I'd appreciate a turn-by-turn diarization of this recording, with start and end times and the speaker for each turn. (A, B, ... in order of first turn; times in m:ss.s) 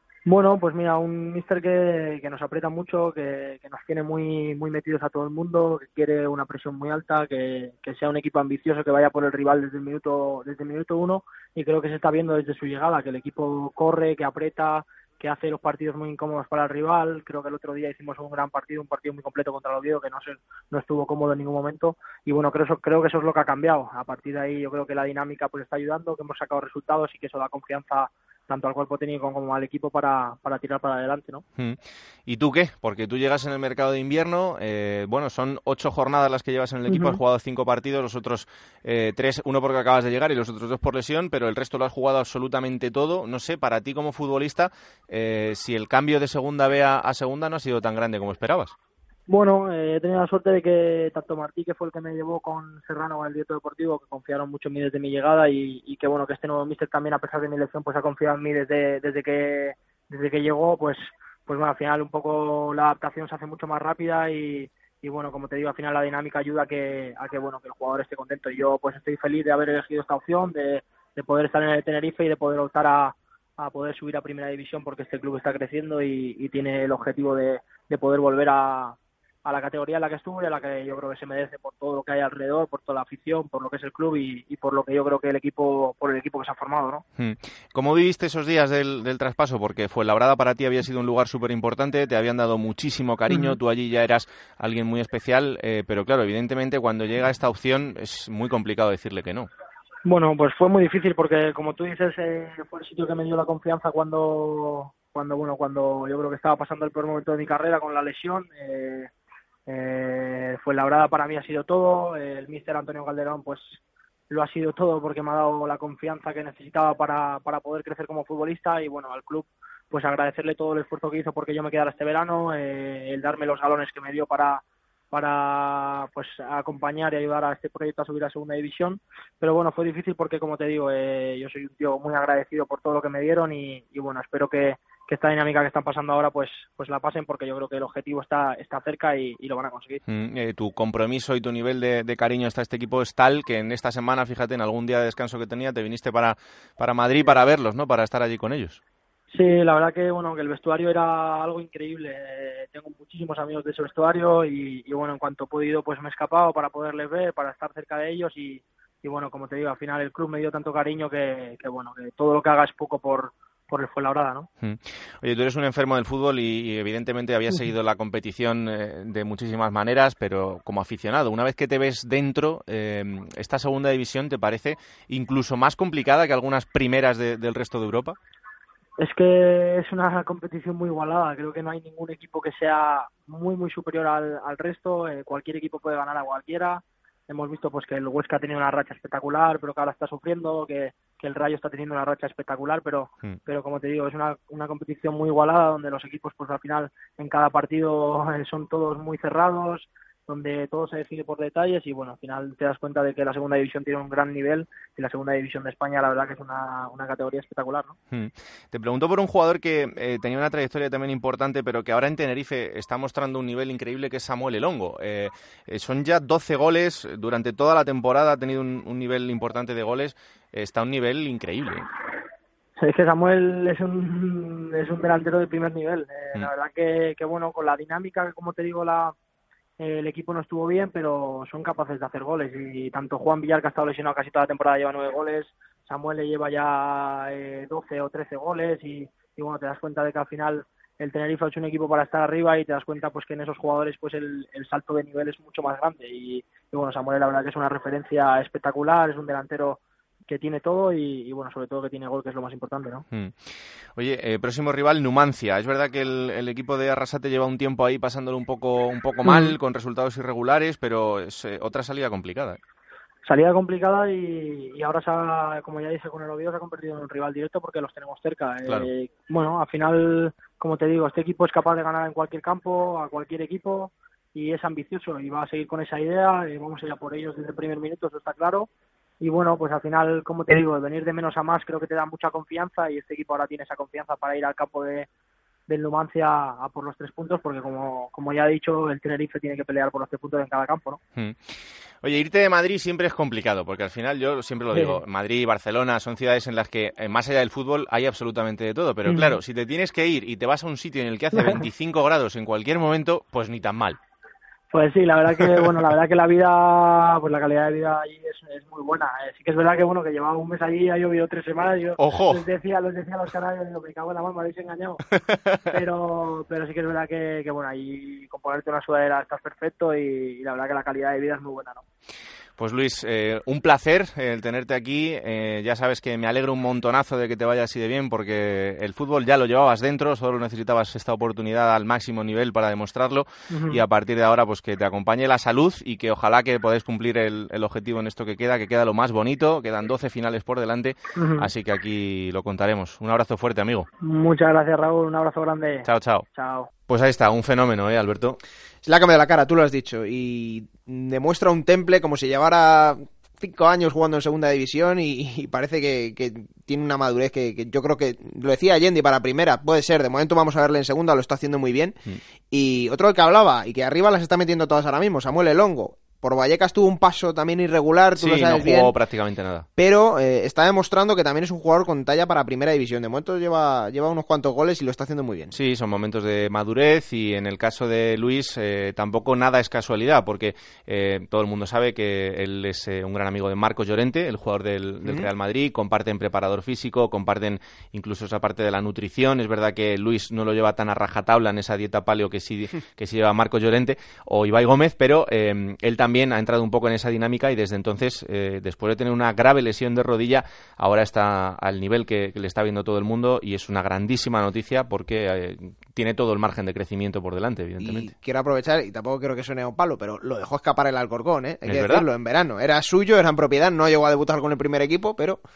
0:00.2-0:31.4 A
0:31.6-0:48.7 B
0:36.9-0:37.2 A
0:49.3-1:27.0 A
1:27.2-1:39.5 B
1:33.3-1:33.5 A
1:40.0-1:49.1 A
1:49.7-1:53.8 A
1:54.3-2:20.0 A
2:20.1-2:28.8 B
2:29.3-2:44.5 A
2:44.6-2:58.2 B
2:59.0-3:27.9 A
3:28.1-3:41.8 B
3:42.8-3:49.1 A
3:49.8-4:13.0 A
4:13.1-4:13.4 B
4:14.0-4:22.6 B
4:23.2-4:38.7 A
4:39.2-4:45.1 A
4:45.7-4:51.0 A
4:52.0-5:04.0 B
4:54.7-4:55.0 A
4:59.0-4:59.4 A
5:01.4-5:01.6 A
5:04.7-5:15.0 A
5:12.0-5:12.4 B
5:15.7-5:21.8 A
5:22.6-5:43.9 B
5:33.5-5:33.8 A
5:41.2-5:41.5 A
5:44.0-5:46.7 A
5:45.8-5:46.2 B
5:46.9-5:48.4 B
5:48.8-6:02.0 C
6:02.5-6:08.9 C
6:08.2-6:09.7 B
6:09.8-6:15.5 C
6:15.5-6:48.1 B
6:47.8-6:55.4 C
6:51.6-6:52.0 B